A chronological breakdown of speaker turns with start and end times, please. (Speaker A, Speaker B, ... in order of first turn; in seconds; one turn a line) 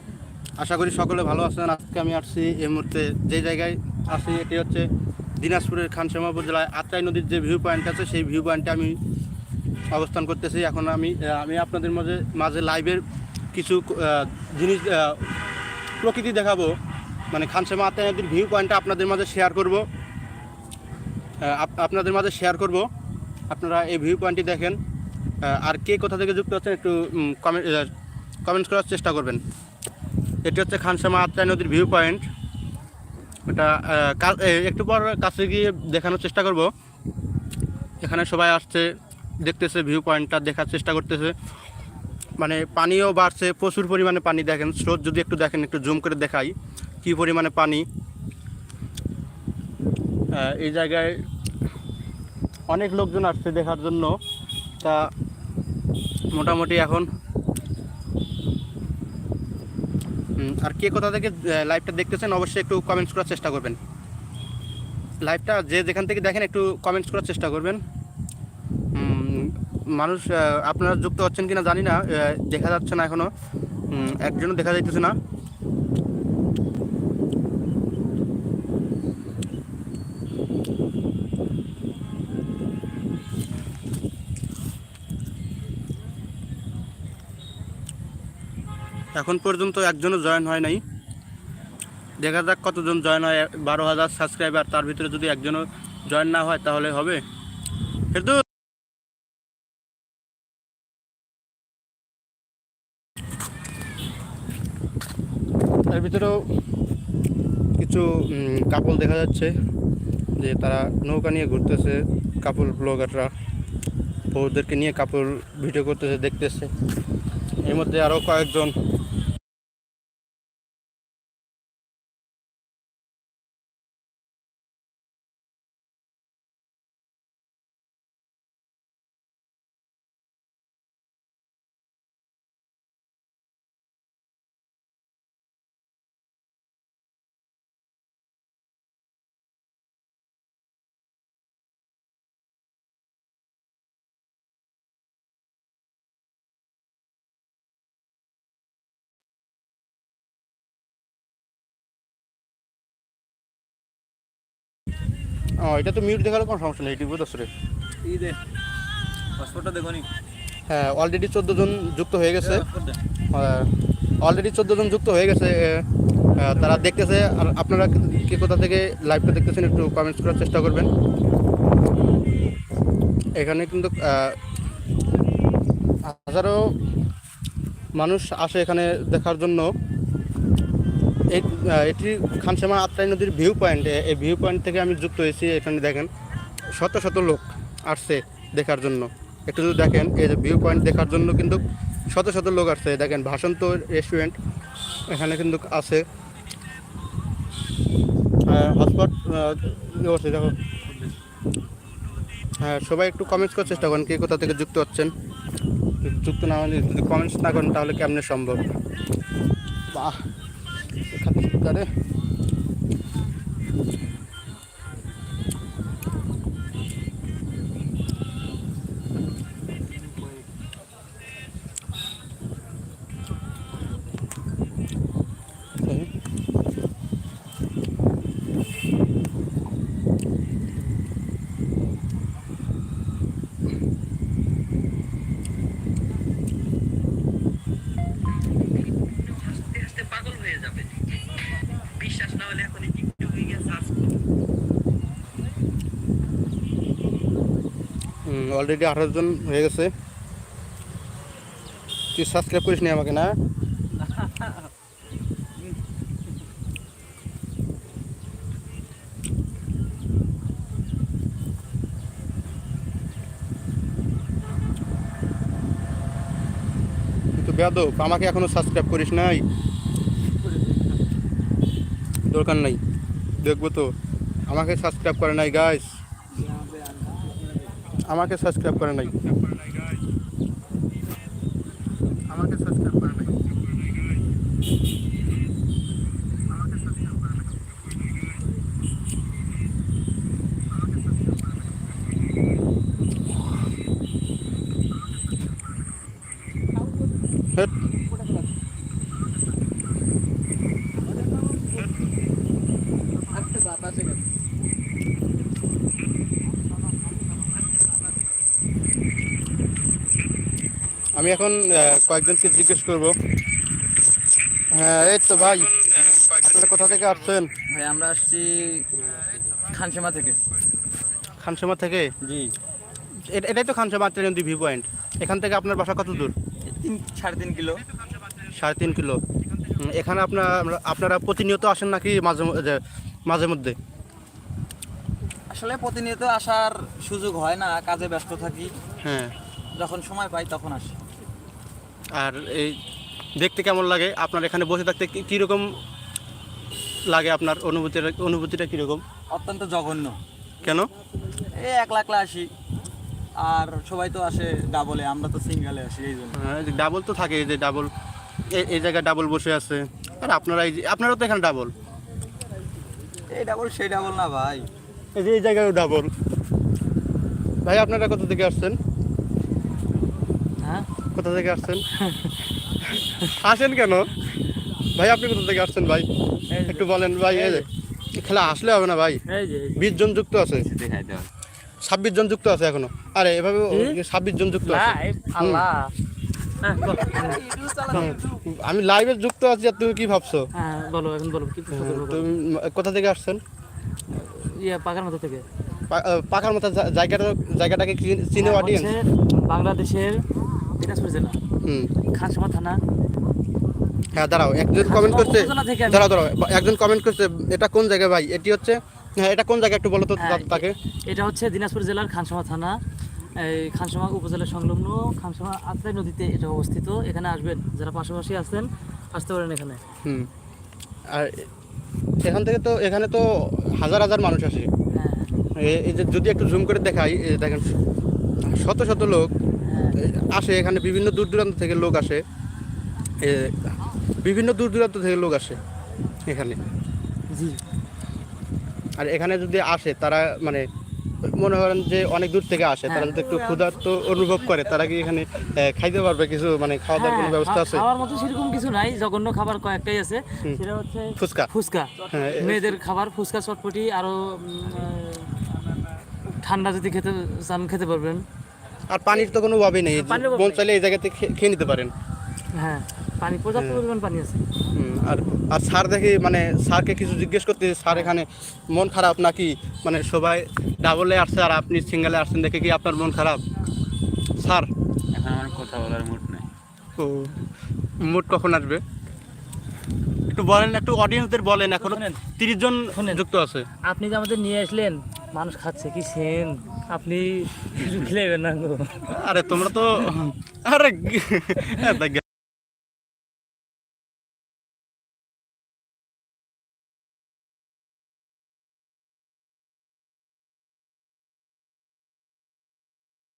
Speaker A: 0.6-4.8
Speaker A: 5.4-9.0
Speaker A: 9.9-13.0
Speaker A: 13.5-15.2
Speaker A: 16.0-16.7
Speaker A: 17.3-19.8
Speaker A: 21.4-22.9
Speaker A: 23.5-24.8
Speaker A: 25.4-27.9
Speaker A: 28.4-29.4
Speaker A: 30.4-32.2
Speaker A: 33.5-36.7
Speaker A: 38.0-38.9
Speaker A: 39.4-41.3
Speaker A: 42.4-47.8
Speaker A: 50.3-51.1
Speaker A: 52.7-54.1
Speaker A: 54.8-55.1
Speaker A: 56.3-57.1
Speaker A: 60.4-63.8
Speaker A: 65.2-67.8
Speaker A: 68.9-73.3
Speaker A: 73.9-75.2
Speaker A: 89.1-90.8
Speaker A: 92.2-97.2
Speaker A: 98.1-98.4
Speaker A: 105.9-106.4
Speaker A: 107.8-109.5
Speaker A: 110.4-113.3
Speaker A: 114.3-116.7
Speaker A: 117.6-118.7
Speaker A: 155.6-157.5
Speaker B: 158.0-158.4
Speaker B: 159.4-160.1
Speaker A: 160.7-162.6
Speaker B: 162.4-163.0
Speaker A: 163.3-163.7
Speaker A: 164.2-165.8
Speaker A: 166.4-170.9
Speaker A: 173.4-174.4
Speaker A: 176.0-176.7
Speaker A: 177.9-179.7
Speaker A: 181.3-186.1
Speaker A: 186.8-194.4
Speaker B: 190.7-191.7
Speaker A: 195.1-196.0
Speaker A: 198.5-200.5
Speaker A: 202.6-205.1
Speaker A: 206.0-208.6
Speaker A: 209.9-210.2
Speaker A: 211.1-211.9
Speaker C: 239.7-240.7
Speaker C: 242.0-243.6
Speaker A: 248.2-249.9
Speaker A: 252.1-253.3
Speaker B: 254.2-254.5
Speaker A: 267.4-269.4
Speaker A: 272.3-272.8
Speaker A: 273.4-273.9
Speaker A: 274.5-275.9
Speaker B: 276.3-277.7
Speaker A: 278.1-279.2
Speaker A: 282.3-283.3
Speaker A: 311.1-313.1
Speaker A: 314.7-317.5
Speaker B: 317.7-320.4
Speaker A: 321.4-322.1
Speaker B: 322.2-322.5
Speaker A: 323.3-326.3
Speaker B: 326.6-327.8
Speaker A: 328.5-329.2
Speaker A: 329.8-333.8
Speaker B: 335.5-338.7
Speaker A: 339.0-339.3
Speaker B: 339.7-340.9
Speaker A: 342.2-342.8
Speaker A: 343.4-345.7
Speaker A: 347.1-349.0
Speaker B: 349.3-350.2
Speaker A: 350.6-350.9
Speaker B: 351.3-352.5
Speaker B: 353.4-356.4
Speaker A: 356.4-357.9
Speaker A: 358.5-361.7
Speaker B: 363.3-364.7
Speaker A: 365.1-366.1
Speaker A: 367.6-368.8
Speaker C: 370.6-370.9
Speaker A: 371.1-371.8
Speaker C: 371.9-372.4
Speaker A: 372.9-374.1
Speaker A: 374.9-376.1
Speaker A: 376.6-379.2
Speaker C: 377.2-377.6
Speaker C: 379.3-379.9
Speaker A: 379.8-380.6
Speaker B: 380.6-381.3
Speaker A: 381.8-385.6
Speaker C: 383.7-384.0
Speaker C: 384.6-385.9
Speaker C: 386.6-387.4
Speaker B: 386.9-388.3
Speaker A: 387.9-390.4
Speaker C: 390.5-392.3
Speaker A: 391.7-393.4
Speaker C: 394.1-395.4
Speaker A: 395.9-398.9
Speaker C: 398.4-400.2
Speaker C: 400.8-401.4
Speaker A: 401.6-401.9
Speaker C: 402.1-402.8
Speaker A: 404.1-410.7
Speaker C: 404.8-406.2
Speaker C: 410.2-412.8
Speaker C: 413.4-419.8
Speaker A: 421.1-421.5
Speaker A: 422.2-424.7
Speaker C: 424.9-425.3
Speaker A: 425.6-427.6
Speaker A: 428.5-429.3
Speaker C: 429.6-430.0
Speaker A: 429.9-432.2
Speaker A: 433.2-435.6
Speaker A: 436.3-436.6
Speaker C: 437.3-437.6
Speaker A: 439.0-440.6
Speaker A: 441.4-447.9
Speaker C: 442.9-443.2
Speaker B: 443.3-443.7
Speaker C: 446.9-455.3
Speaker A: 451.2-451.5
Speaker B: 452.0-452.7
Speaker A: 452.1-452.5
Speaker C: 456.4-458.2
Speaker A: 458.9-461.9
Speaker C: 459.9-460.6
Speaker C: 462.5-464.4
Speaker A: 463.6-463.8
Speaker A: 464.7-473.4
Speaker C: 467.9-468.1
Speaker A: 474.4-474.7
Speaker B: 475.1-476.5
Speaker A: 477.0-477.4
Speaker A: 478.0-478.8
Speaker A: 480.3-483.6
Speaker C: 481.8-482.2
Speaker C: 482.9-483.2
Speaker C: 483.8-490.1
Speaker A: 489.1-492.2
Speaker C: 491.6-492.0